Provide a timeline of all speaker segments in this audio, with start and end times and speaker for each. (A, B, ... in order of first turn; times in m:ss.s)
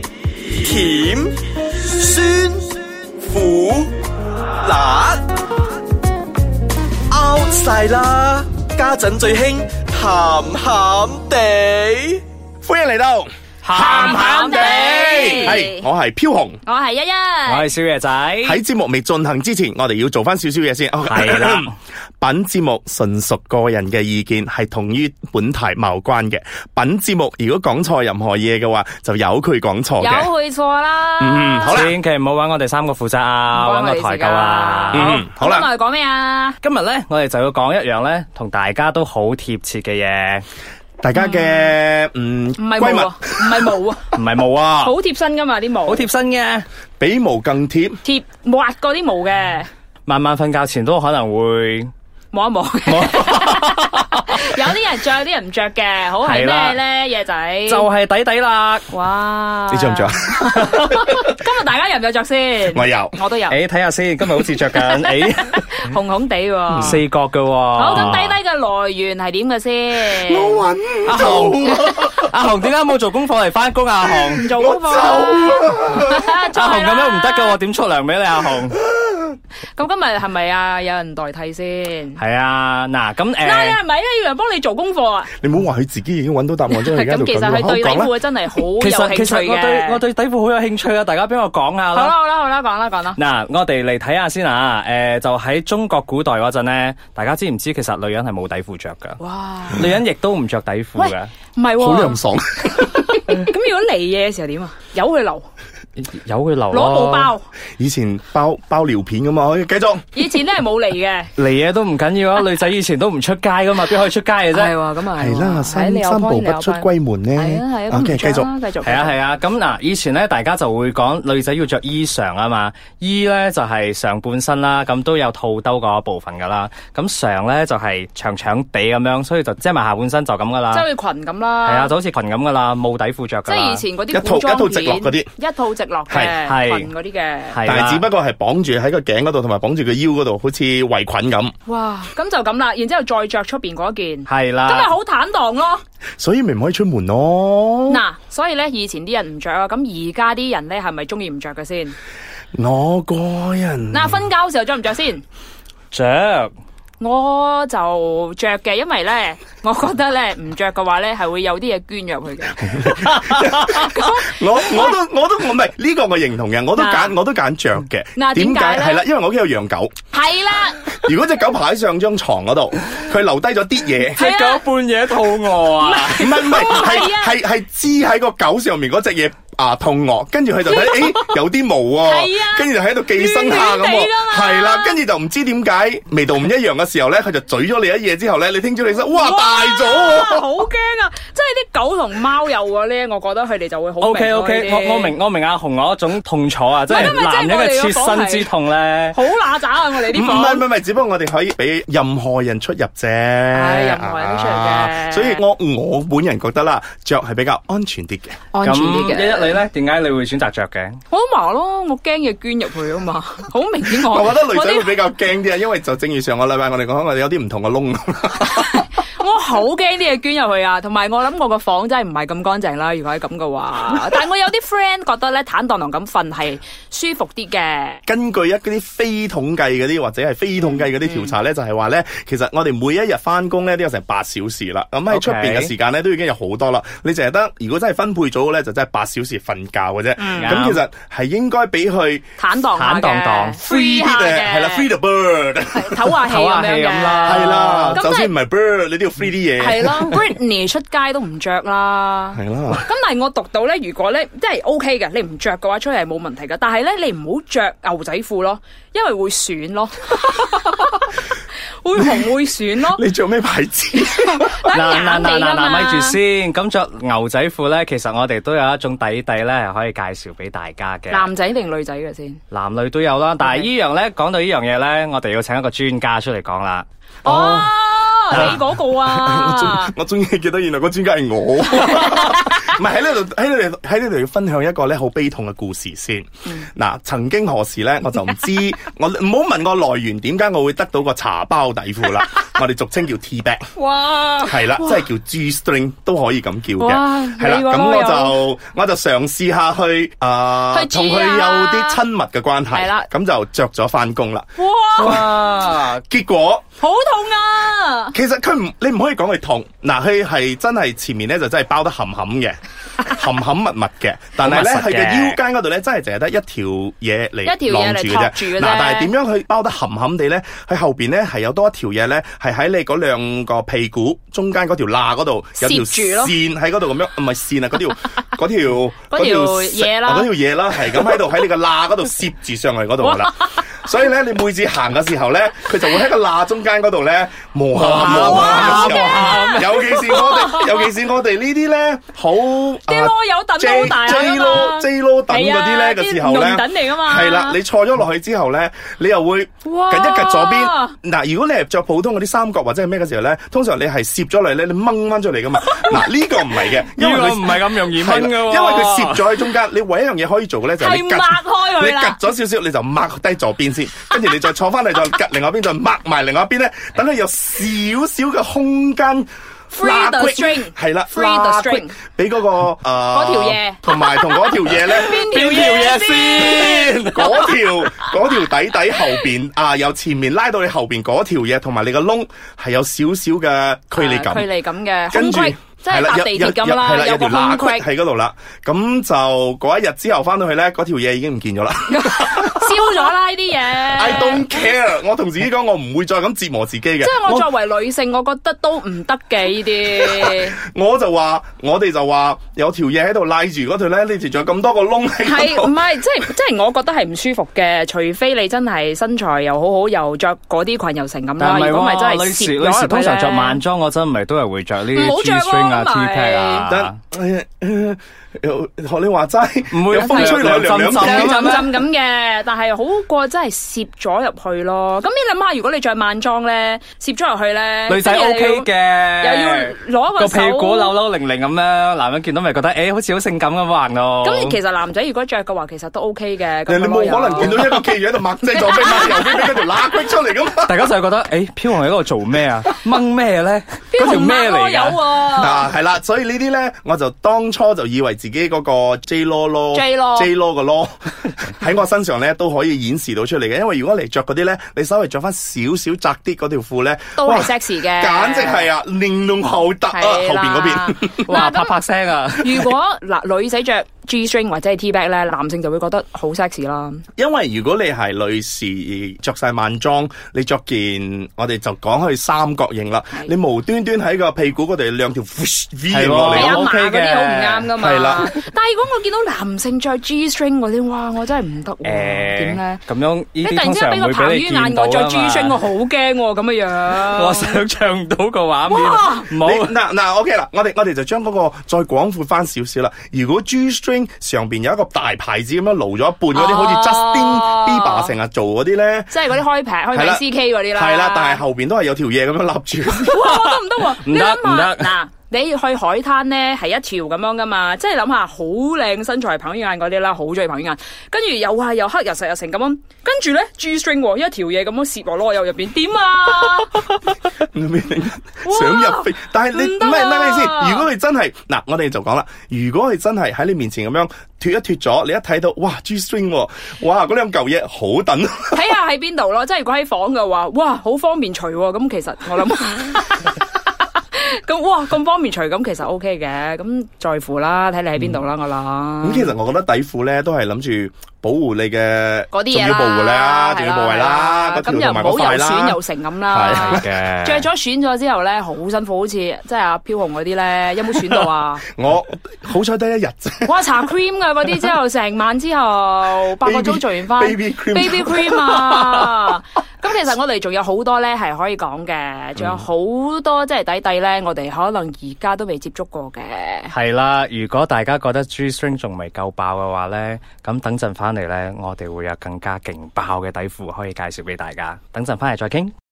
0:00.4-0:01.4 A
0:01.9-0:03.9 A
0:04.6-0:05.2 A
0:07.1-0:12.2 A
0:12.6-0:16.6 B
0:13.6-0:15.6 C
0:13.7-0:15.8 D
0:16.6-0:17.7 D
0:17.5-0:18.6 C
0:18.4-0:30.3 B
0:21.1-0:21.7 C
0:30.0-0:31.8 D
0:31.2-0:31.9 B
0:31.7-0:35.1 C
0:33.5-0:36.6 D
0:34.9-0:35.7 B
0:36.6-0:40.4 C
0:41.0-0:43.7 B
0:41.1-0:41.7 D
0:42.6-0:44.1 D
0:44.1-0:44.9 C
0:44.8-0:46.0 D
0:45.9-0:46.6 C
0:47.0-0:48.0 B
0:48.0-0:49.7 D
0:50.0-0:51.9 C
0:52.3-0:57.9 D
0:52.8-0:54.5 C
0:56.2-0:56.8 C
0:57.7-0:58.8 C
0:58.9-1:03.6 D
0:59.7-1:01.1 B
1:02.7-1:03.2 B
1:03.5-1:05.8 C
1:04.8-1:07.0 D
1:06.7-1:07.0 B
1:06.8-1:08.4 C
1:07.8-1:10.6 D
1:07.9-1:08.2 B
1:10.0-1:12.3 B
1:11.0-1:14.5 C
1:14.4-1:17.6 D
1:14.5-1:16.3 B
1:16.5-1:18.8 C
1:18.8-1:19.3 B
1:19.7-1:22.2 D
1:22.2-1:23.8 C
1:23.4-1:25.3 D
1:25.4-1:28.1 B
1:26.7-1:30.0 D
1:28.8-1:32.1 C
1:31.9-1:33.2 D
1:33.2-1:39.2 C
1:39.2-1:39.9 D
1:39.7-1:41.3 C
1:41.0-1:42.2 D
1:41.8-1:43.2 B
1:42.9-1:45.5 D
1:46.0-1:47.3 C
1:46.7-1:47.5 D
1:47.8-1:50.4 B
1:50.1-1:51.3 D
1:51.4-1:54.7 C
1:54.5-1:59.2 D
1:55.2-1:58.5 B
1:58.8-2:10.8 C
2:10.7-2:11.9 D
2:11.6-2:13.8 C
2:13.4-2:17.6 D
2:14.1-2:15.3 B
2:16.1-2:16.4 B
2:16.4-2:16.9 C
2:17.5-2:18.0 C
2:17.6-2:21.5 B
2:21.6-2:25.8 D
2:24.3-2:24.9 C
2:26.2-2:28.0 B
2:27.9-2:32.0 D
2:32.5-2:34.3 B
2:33.9-2:35.2 D
2:35.9-2:36.5 C
2:37.0-2:43.0 D
2:42.7-2:49.9 B
2:43.5-2:45.0 D
2:46.7-2:47.2 D
2:48.2-2:49.0 D
2:50.1-2:50.9 D
2:51.0-2:54.2 B
2:54.1-2:56.3 C
2:54.2-2:54.6 D
2:55.8-2:57.4 D
2:56.1-3:10.4 B
3:00.6-3:01.4 D
3:02.0-3:05.0 D
3:09.0-3:15.1 D
3:14.0-3:19.2 C
3:16.9-3:18.5 D
3:19.1-3:20.6 D
3:20.1-3:28.4 B
3:23.5-3:25.4 D
3:28.5-3:29.6 D
3:28.6-3:31.0 C
3:31.1-3:35.0 D
3:33.9-3:38.8 B
3:38.4-3:48.0 D
3:48.0-4:02.2 B
3:51.0-3:51.3 D
3:55.1-3:55.7 C
4:00.2-4:00.6 D
4:00.4-4:00.8 C
4:02.4-4:04.9 D
4:02.7-4:03.6 C
4:03.6-4:06.2 B
4:05.7-4:08.3 D
4:06.3-4:08.0 C
4:07.2-4:10.2 B
4:09.6-4:21.2 D
4:12.3-4:12.8 B
4:21.8-4:23.0 D
4:22.9-4:24.7 B
4:24.0-4:26.2 D
4:24.7-4:31.3 C
4:31.1-4:32.4 D
4:32.5-4:36.8 C
4:33.4-4:33.7 D
4:37.2-4:39.9 D
4:37.2-4:53.7 B
4:38.3-4:38.6 C
4:53.8-4:55.0 D
4:54.4-5:04.5 B
4:56.8-4:58.4 D
5:00.7-5:02.0 D
5:02.7-5:03.1 D
5:04.6-5:05.3 D
5:05.0-5:06.0 C
5:05.0-5:06.6 B
5:06.8-5:08.1 D
5:08.1-6:15.2 B
5:14.4-5:15.4 C
5:17.4-5:19.1 D
5:25.6-5:26.3 D
5:29.1-5:30.3 D
5:33.0-5:33.5 D
5:37.8-5:40.3 C
5:38.0-5:40.7 D
5:42.8-5:47.6 D
5:49.6-5:51.0 D
5:56.8-5:59.4 C
6:00.8-6:02.2 D
6:09.7-6:11.9 D
6:13.1-6:16.9 D
6:14.8-6:18.2 C
6:16.3-6:24.5 B
6:24.0-6:27.9 D
6:25.1-6:33.0 B
6:31.9-6:34.4 D
6:33.9-6:37.5 B
6:37.0-6:40.6 D
6:39.9-6:45.7 B
6:45.2-6:53.6 D
6:51.4-6:57.0 C
6:54.9-6:56.6 D
6:56.7-7:01.6 B
6:59.7-7:01.8 C
6:59.9-7:10.9 D
7:07.9-7:14.6 C
7:14.2-7:17.6 D
7:16.6-7:20.9 B
7:17.3-7:17.8 C
7:18.7-7:19.5 C
7:18.7-7:19.4 D
7:20.6-7:25.0 C
7:23.9-7:25.7 D
7:25.3-7:41.3 B
7:29.7-7:30.3 D
7:37.2-7:38.7 D
7:39.9-7:41.7 D
7:41.2-7:42.7 C
7:42.4-7:47.0 D
7:47.2-7:56.6 B
7:55.9-7:57.7 C
7:56.3-8:02.8 D
7:57.8-7:58.3 B
8:01.8-8:05.6 C
8:03.4-8:07.6 D
8:06.9-8:09.8 C
8:08.7-8:09.3 D
8:09.4-8:19.2 B
8:16.3-8:18.2 D
8:19.1-8:21.4 D
8:19.9-8:23.2 B
8:23.0-8:37.0 D
8:23.2-8:24.9 C
8:37.4-8:48.6 B
8:38.4-8:40.9 D
8:48.5-8:53.4 D
8:54.1-8:59.3 D
8:59.0-9:06.8 B
9:02.3-9:11.6 D
9:06.5-9:07.4 C
9:11.7-9:13.6 B
9:13.4-9:26.7 D
9:16.4-9:19.2 B
9:26.7-9:35.7 C